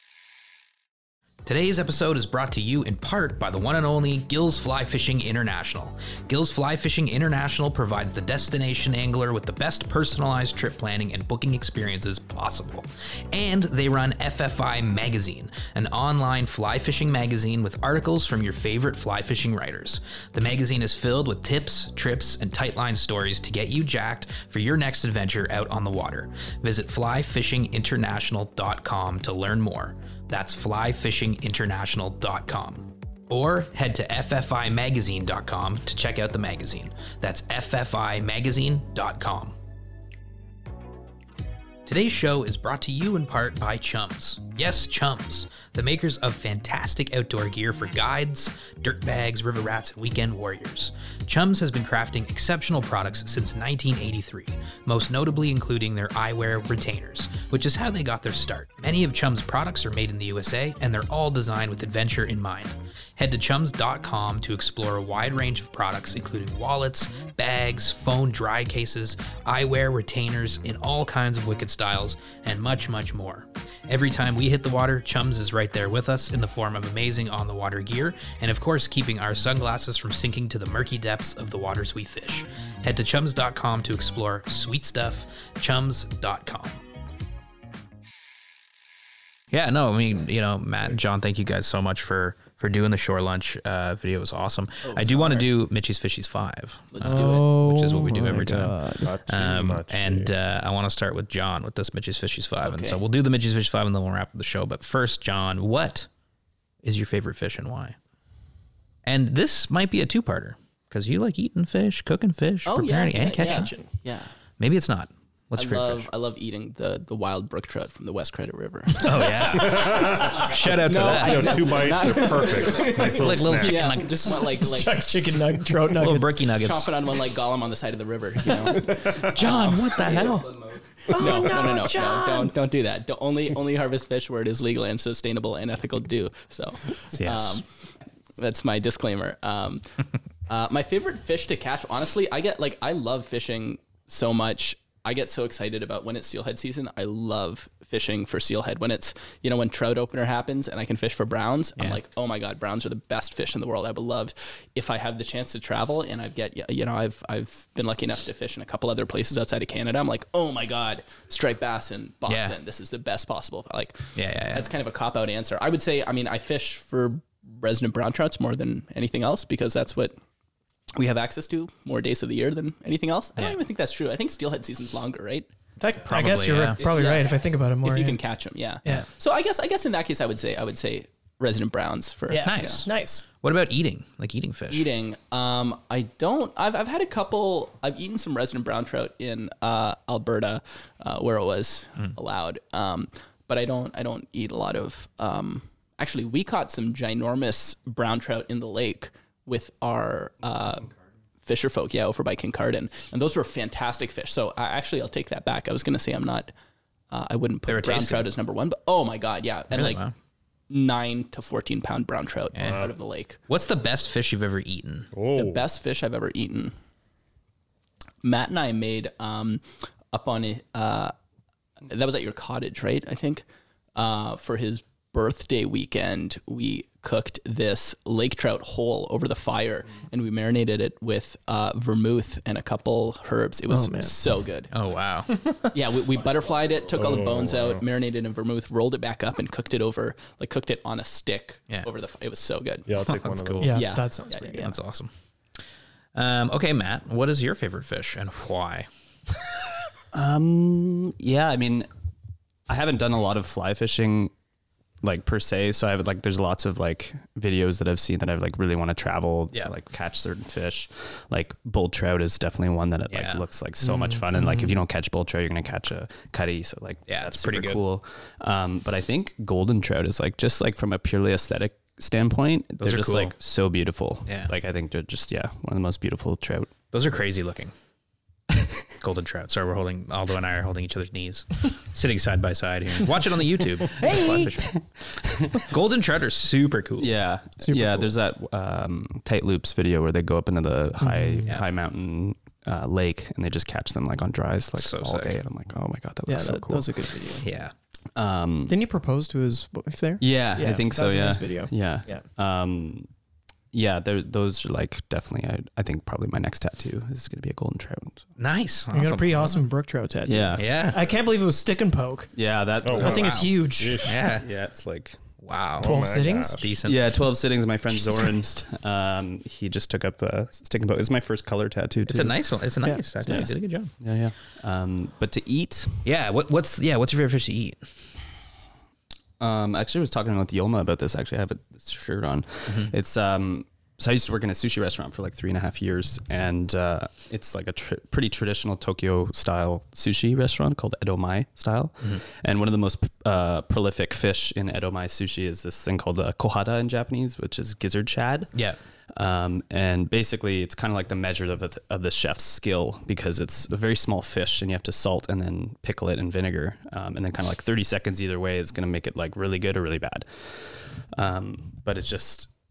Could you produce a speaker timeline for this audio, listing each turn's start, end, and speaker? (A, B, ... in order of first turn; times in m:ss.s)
0:01.4-0:39.6 A
0:41.9-1:26.8 A
1:29.5-1:46.1 A
1:34.8-1:35.5 B
1:36.9-1:37.5 B
1:37.0-1:39.1 C
1:39.0-1:40.3 D
1:42.6-1:43.0 B
1:46.8-1:48.0 A
1:49.0-1:53.7 A
1:52.7-1:54.3 B
1:53.1-1:53.9 C
1:54.6-1:56.1 A
1:55.6-2:05.1 B
1:59.0-2:01.7 A
1:59.4-2:04.0 D
2:02.8-2:04.6 A
2:04.5-2:06.5 C
2:05.9-2:06.9 A
2:06.6-2:10.5 B
2:08.9-2:09.3 D
2:09.0-2:10.5 A
2:09.6-2:10.6 C
2:11.1-2:17.7 B
2:11.1-2:12.5 C
2:17.1-2:17.6 A
2:18.4-2:50.2 B
2:42.3-2:42.6 A
2:44.2-2:44.7 A
2:51.0-2:55.5 B
2:55.8-2:58.2 C
2:56.1-2:56.8 A
2:56.8-3:02.9 B
3:02.3-3:03.2 C
3:02.4-3:04.9 A
3:04.7-3:20.9 B
3:21.4-3:26.5 B
3:27.1-3:30.0 B
3:27.7-3:28.3 A
3:29.7-3:30.1 A
3:30.7-3:33.4 B
3:32.5-3:32.8 A
3:32.6-3:33.0 D
3:33.5-3:35.1 A
3:35.1-3:35.6 D
3:35.4-3:36.7 B
3:38.2-3:41.1 B
3:41.9-3:43.4 B
3:44.0-3:54.7 B
3:53.7-3:54.1 C
3:54.7-3:55.4 A
3:55.3-3:55.8 C
3:55.7-4:02.9 B
3:56.9-3:57.8 D
4:02.9-4:03.8 D
4:03.0-4:04.0 A
4:03.6-4:04.7 C
4:03.7-4:04.7 B
4:04.5-4:05.1 A
4:06.2-4:08.9 A
4:10.1-4:11.9 E
4:12.7-4:14.3 E
4:15.0-4:36.7 E
4:23.1-4:23.4 A
4:23.9-4:24.7 C
4:27.1-4:27.8 A
4:32.8-4:33.4 A
4:34.3-4:34.5 A
4:36.9-4:37.7 A
4:39.0-4:44.8 A
4:44.0-4:44.4 C
4:44.8-4:45.6 E
4:45.6-4:47.1 A
4:47.0-4:57.0 E
4:47.6-4:48.0 C
4:51.0-4:51.4 C
4:54.8-4:55.4 A
4:56.3-4:57.5 C
4:57.4-4:57.7 A
4:58.2-4:58.8 E
4:58.7-5:02.2 C
5:00.2-5:03.1 E
5:03.7-5:08.3 E
5:08.4-5:09.6 A
5:08.9-5:12.3 C
5:10.3-5:10.7 E
5:10.6-5:11.0 A
5:12.4-5:13.6 E
5:12.8-5:14.2 D
5:13.0-5:14.1 C
5:13.0-5:14.5 A
5:14.3-5:15.2 E
5:15.4-5:17.0 A
5:15.8-5:16.8 D
5:15.8-5:16.6 C
5:16.8-5:22.4 E
5:22.1-5:23.9 A
5:22.8-5:23.5 C
5:24.0-5:26.1 E
5:26.0-5:27.9 A
5:29.4-5:48.6 E
5:32.7-5:32.9 A
5:49.1-6:02.5 E